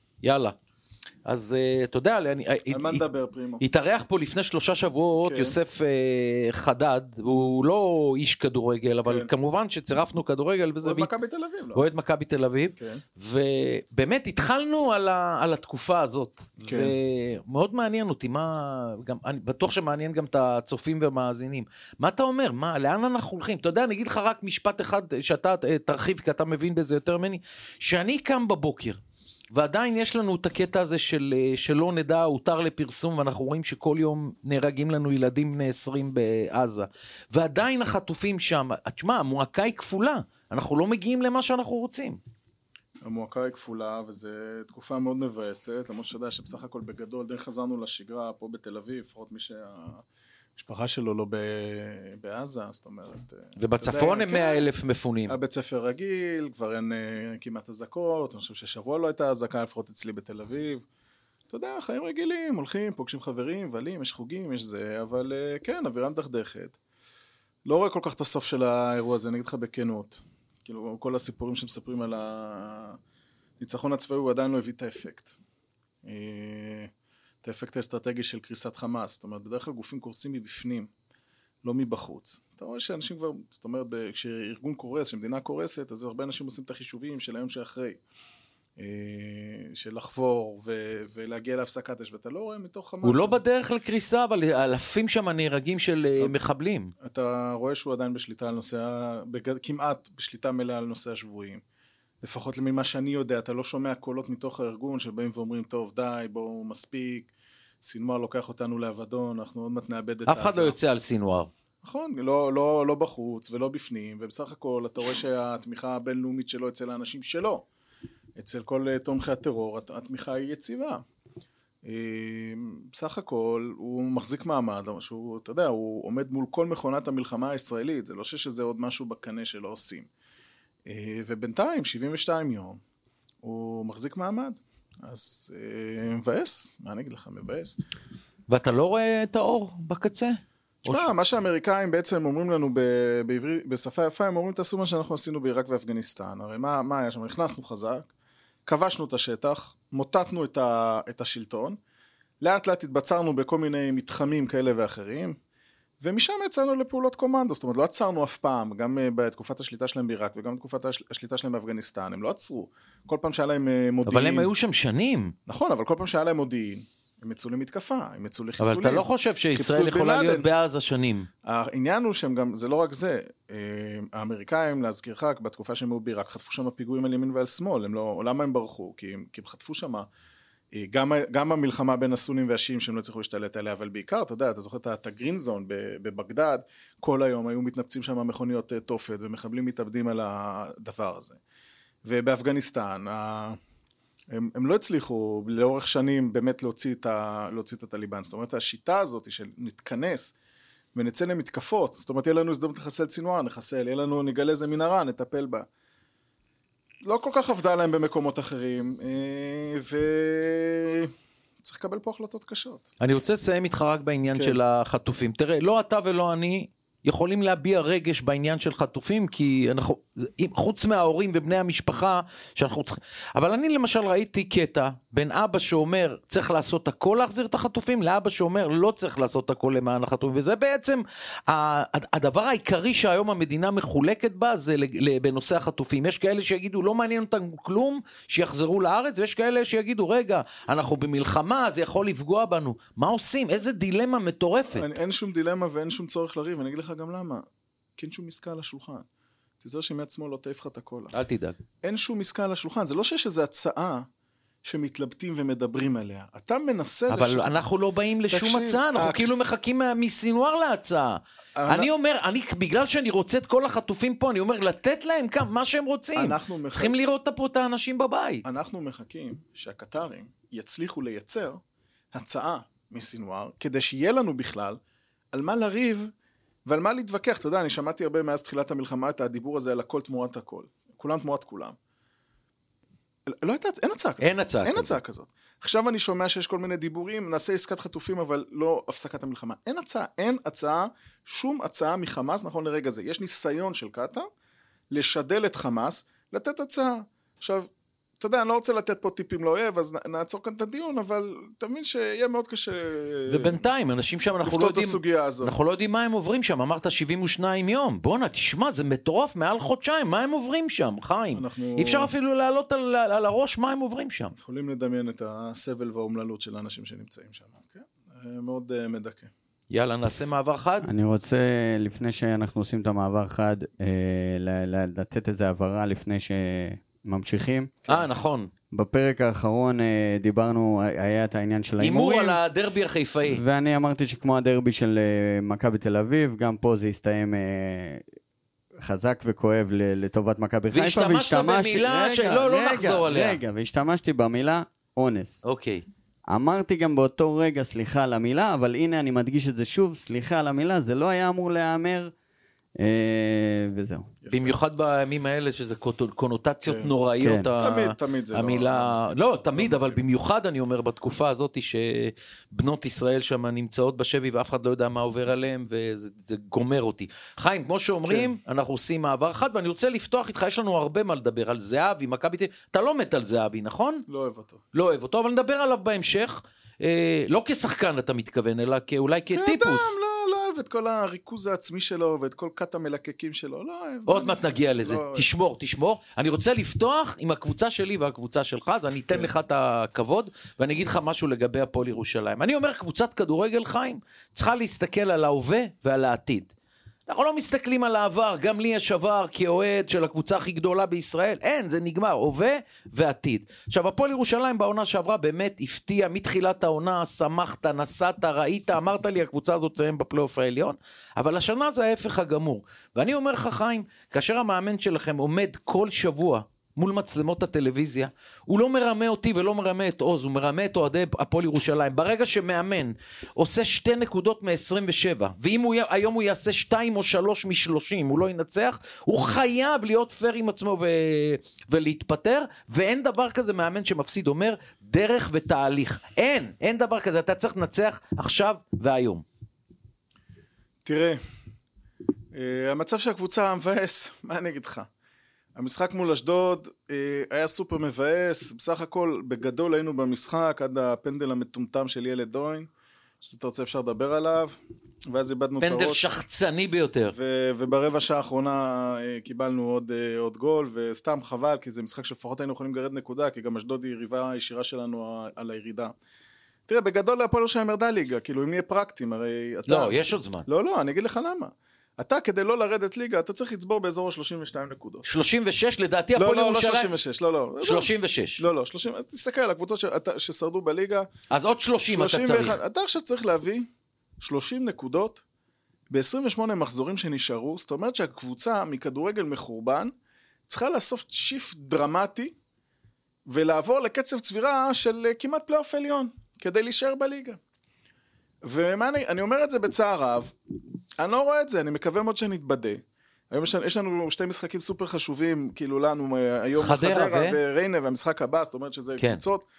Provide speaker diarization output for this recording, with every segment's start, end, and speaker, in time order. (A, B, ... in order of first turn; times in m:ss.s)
0:00.2-0:00.6 A
0:01.2-0:03.0 A
0:02.7-0:03.6 B
0:03.6-0:11.1 A
0:05.2-0:05.6 B
0:10.8-0:11.9 B
0:11.7-0:29.0 A
0:12.8-0:13.0 B
0:16.6-0:17.0 B
0:29.5-0:42.2 A
0:43.0-0:50.0 B
0:50.6-0:54.6 B
0:53.6-0:55.4 A
0:55.3-1:00.8 B
1:01.5-1:06.8 B
1:07.6-1:13.0 B
1:13.6-1:15.4 B
1:16.0-1:16.9 B
1:17.4-1:20.9 B
1:21.6-1:28.0 B
1:28.8-1:33.4 B
1:33.0-1:36.9 A
1:37.0-1:41.6 B
1:42.2-1:47.3 B
1:47.8-1:50.8 B
1:50.3-1:51.5 A
1:51.8-1:57.7 B
1:58.4-2:01.0 B
2:01.8-2:10.1 B
2:10.9-2:12.8 B
2:13.4-2:17.8 B
2:18.5-2:21.1 A
2:20.8-2:28.1 B
2:28.7-2:31.8 B
2:32.4-2:35.4 B
2:36.0-2:44.5 B
2:44.1-2:45.3 A
2:45.5-2:50.5 B
2:48.6-2:51.3 A
2:51.4-3:00.1 B
3:00.7-3:11.4 B
3:12.0-3:13.6 B
3:14.3-3:20.3 B
3:21.0-3:25.7 B
3:27.0-3:31.1 B
3:31.6-3:32.9 B
3:33.0-4:04.9 A
4:04.7-4:07.4 B
4:08.0-4:09.1 B
4:09.6-4:11.1 B
4:11.1-4:11.6 A
4:11.8-4:14.1 B
4:14.6-4:17.5 B
4:17.1-4:28.4 A
4:18.3-4:19.3 B
4:21.6-4:21.9 B
4:26.2-4:27.0 B
4:28.4-4:31.6 B
4:32.1-4:34.8 B
4:35.3-4:36.1 B
4:36.7-4:41.8 B
4:43.3-4:54.3 B
4:44.2-4:45.0 A
4:54.9-4:57.7 B
4:58.2-5:03.7 B
5:03.3-5:14.3 A
5:04.4-5:05.5 B
5:11.3-5:12.1 B
5:14.4-5:19.3 B
5:19.7-5:20.9 A
5:20.8-5:27.7 C
5:27.9-5:28.5 A
5:28.7-5:32.4 C
5:31.8-5:33.4 A
5:33.3-5:38.0 C
5:38.8-5:45.4 C
5:40.7-5:43.4 A
5:45.4-5:45.8 A
5:46.3-5:52.1 C
5:52.8-5:54.2 C
5:54.2-5:54.5 B
5:54.3-6:14.0 A
5:56.6-5:56.9 B
5:57.2-5:57.5 C
5:57.6-6:00.0 B
6:08.0-6:08.3 B
6:14.1-6:14.6 B
6:14.7-6:20.0 A
6:19.3-6:25.3 B
6:24.1-6:36.5 A
6:37.1-7:19.2 A
7:20.8-7:21.2 B
7:22.3-7:24.9 B
7:25.6-7:32.7 B
7:33.2-7:34.6 B
7:35.1-7:36.1 B
7:35.6-7:37.2 A
7:37.1-7:45.9 B
7:46.7-7:50.0 B
7:49.7-7:50.5 A
7:50.5-7:55.1 B
7:55.0-7:56.9 A
7:56.2-8:01.1 B
7:57.6-7:58.4 A
8:01.3-8:02.6 A
8:01.9-8:03.7 B
8:04.2-8:05.2 B
8:05.9-8:09.9 B
8:10.5-8:12.3 B
8:13.3-8:17.4 B
8:18.4-8:20.3 B
8:21.0-8:29.4 B
8:26.6-8:27.4 A